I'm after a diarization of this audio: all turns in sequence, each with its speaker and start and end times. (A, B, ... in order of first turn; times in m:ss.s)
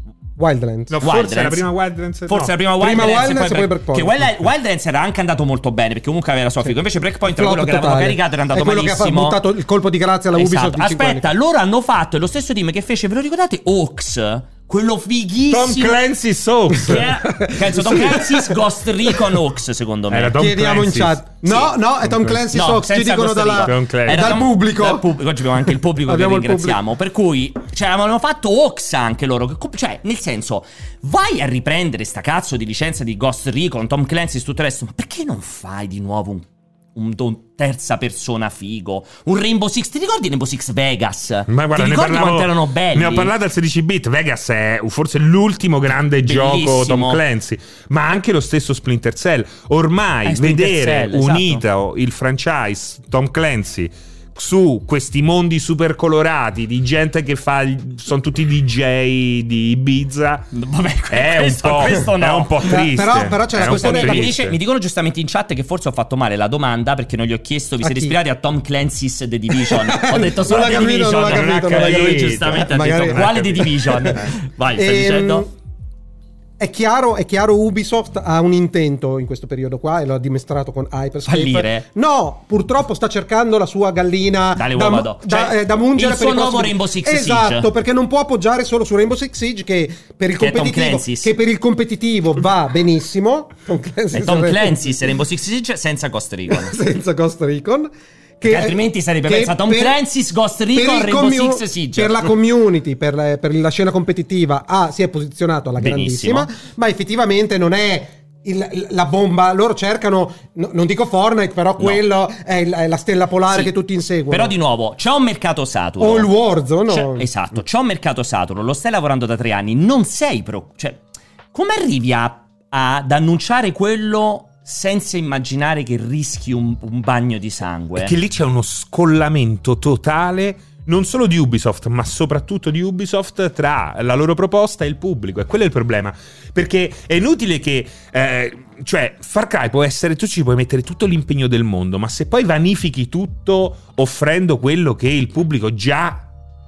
0:00.4-0:00.9 A
0:00.9-0:02.5 B
0:01.0-0:01.6 C
0:02.3-0:09.4 C
0:02.8-0:04.1 A
0:06.6-0:11.3 A
0:10.3-0:16.0 C
0:15.5-0:17.1 B
0:16.8-0:20.4 C
0:17.4-0:18.6 A
0:20.1-0:21.2 B
0:20.4-0:25.1 A
0:22.1-0:22.4 B
0:22.5-0:43.3 C
0:23.6-0:24.4 B
0:26.0-0:26.8 A
0:41.5-1:00.5 B
0:46.2-0:47.2 C
0:50.2-0:51.6 C
1:00.5-1:02.8 C
1:01.1-1:04.6 B
1:02.6-1:04.3 A
1:03.6-1:15.4 C
1:07.8-1:08.2 A
1:09.5-1:13.4 A
1:11.1-1:14.2 B
1:14.7-1:15.5 A
1:16.6-1:35.0 A
1:21.3-1:21.8 C
1:24.6-1:27.7 C
1:30.4-1:31.3 C
1:34.1-1:36.8 C
1:36.5-1:40.0 A
1:38.4-1:42.3 C
1:40.7-1:54.5 A
1:45.8-1:46.5 C
1:54.3-1:56.3 C
1:56.0-1:57.3 A
1:56.9-2:01.0 C
2:01.5-2:08.1 C
2:08.0-2:26.2 B